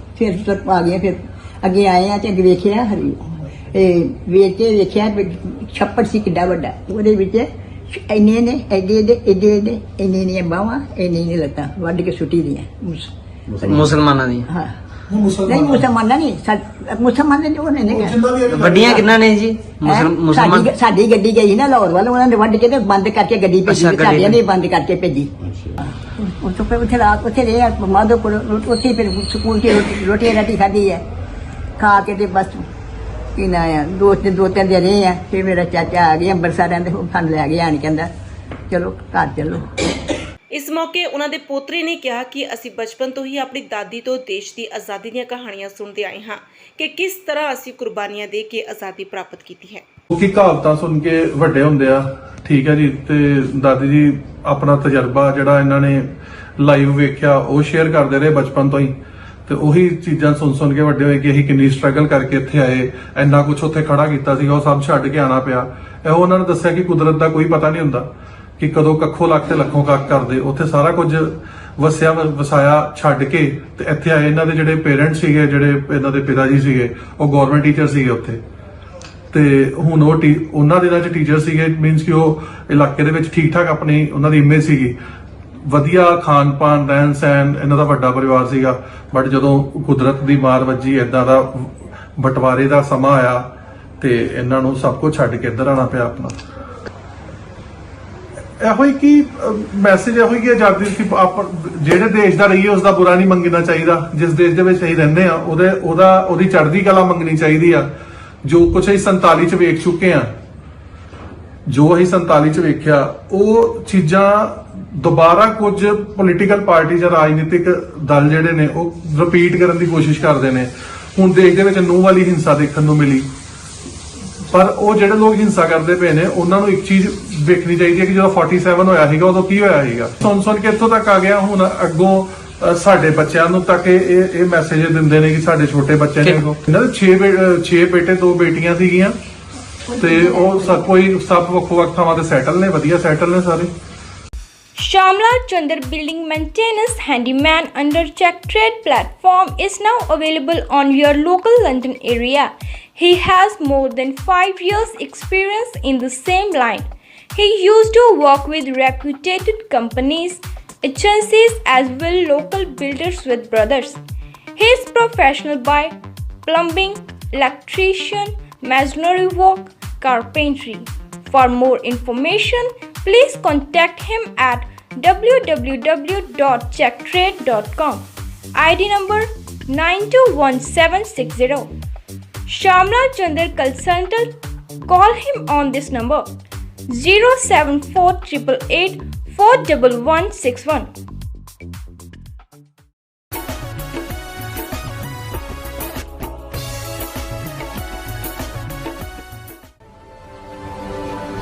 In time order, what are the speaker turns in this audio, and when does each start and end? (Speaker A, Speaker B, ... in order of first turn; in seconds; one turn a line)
Speaker A: 0.2-13.9
Speaker B: 13.6-14.5
Speaker A: 14.5-14.7
Speaker C: 15.2-15.5
Speaker A: 15.4-18.2
Speaker C: 18.3-18.7
Speaker B: 18.4-20.7
Speaker A: 19.8-25.3
Speaker B: 23.7-24.4
Speaker A: 26.1-31.0
Speaker A: 31.8-32.6
Speaker A: 33.4-38.1
Speaker A: 38.7-39.7
Speaker D: 40.5-49.9
Speaker C: 50.1-56.1
Speaker C: 56.6-58.9
Speaker C: 59.5-68.1
Speaker C: 68.6-78.4
Speaker C: 79.3-85.0
Speaker C: 85.7-93.5
Speaker C: 94.0-96.4
Speaker C: 98.6-107.9
Speaker C: 108.5-110.3
Speaker C: 111.7-123.3
Speaker C: 124.5-139.2
Speaker C: 139.9-143.7
Speaker E: 144.8-164.0
Speaker E: 164.6-181.7
Speaker E: 182.5-184.3
Speaker E: 184.8-186.3
Speaker E: 186.9-190.9